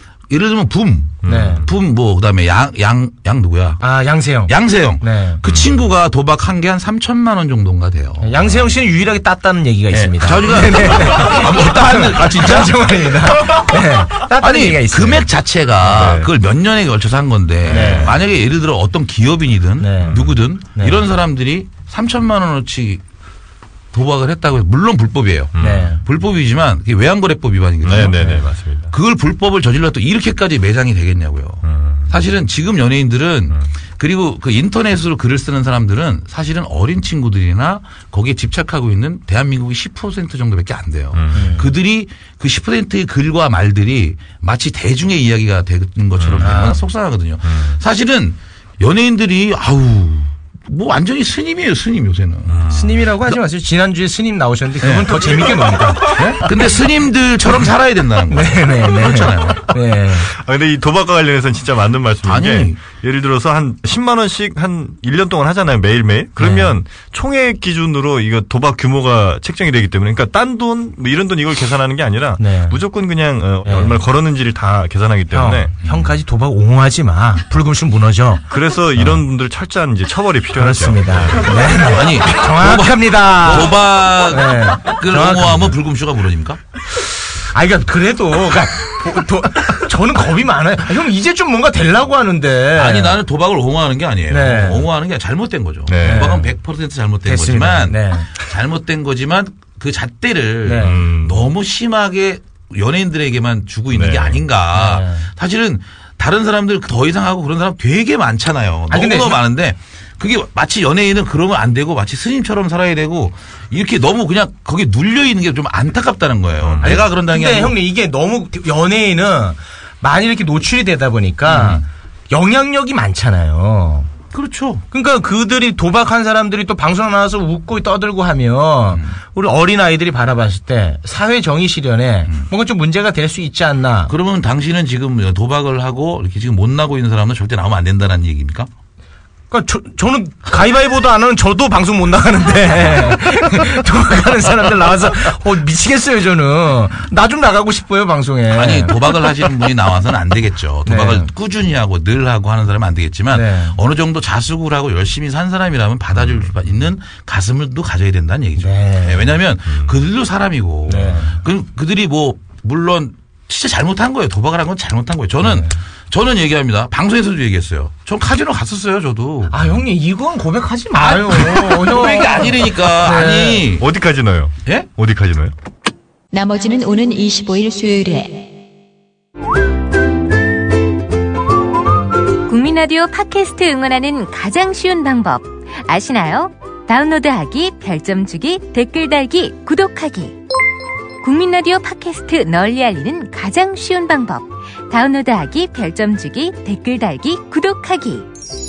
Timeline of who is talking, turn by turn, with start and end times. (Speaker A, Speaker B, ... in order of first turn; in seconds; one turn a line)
Speaker A: 0.3-3.8
Speaker B: 1.2-1.7
Speaker C: 1.2-1.6
Speaker C: 3.8-5.4
Speaker A: 4.5-8.3
Speaker B: 5.5-5.9
Speaker C: 8.2-15.3
Speaker A: 10.2-13.0
Speaker A: 14.3-23.0
Speaker B: 15.9-16.3
Speaker C: 17.7-18.1
Speaker B: 17.7-18.2
Speaker C: 19.8-21.0
Speaker A: 23.9-28.4
Speaker B: 25.6-25.9
Speaker C: 25.6-26.0
Speaker B: 27.8-28.9
Speaker C: 28.2-28.4
Speaker A: 28.9-52.6
Speaker B: 31.6-32.2
Speaker B: 41.1-41.5
Speaker C: 41.3-41.7
Speaker B: 46.2-46.6
Speaker C: 46.4-46.8
Speaker B: 47.5-47.8
Speaker B: 52.5-53.0
Speaker C: 52.7-56.2
Speaker A: 54.8-59.8
Speaker C: 58.3-60.3
Speaker B: 60.3-75.8
Speaker A: 62.2-62.8
Speaker C: 66.4-66.8
Speaker C: 72.4-72.8
Speaker C: 73.7-74.0
Speaker C: 75.3-78.4
Speaker B: 78.5-81.8
Speaker C: 80.6-85.8
Speaker A: 81.8-86.6
Speaker C: 87.4-93.2
Speaker A: 92.7-117.8
Speaker C: 94.3-94.9
Speaker B: 95.9-96.5
Speaker C: 96.0-96.5
Speaker C: 97.2-98.4
Speaker C: 100.6-101.0
Speaker B: 100.8-101.5
Speaker B: 103.9-104.4
Speaker C: 104.8-105.3
Speaker C: 108.9-109.4
Speaker B: 116.6-116.9
Speaker C: 116.8-124.1
Speaker A: 121.5-121.8
Speaker A: 124.3-124.8
Speaker C: 124.9-134.1
Speaker A: 134.1-138.7
Speaker C: 139.5-149.3
Speaker A: 148.5-169.7
Speaker C: 150.9-151.3
Speaker C: 153.3-153.8
Speaker C: 158.6-159.3
Speaker C: 160.9-161.4
Speaker C: 165.5-165.7
Speaker C: 169.5-173.7
Speaker A: 170.9-173.9
Speaker B: 173.8-175.5
Speaker D: 176.3-178.5
Speaker E: 182.5-190.4
Speaker E: 191.2-198.3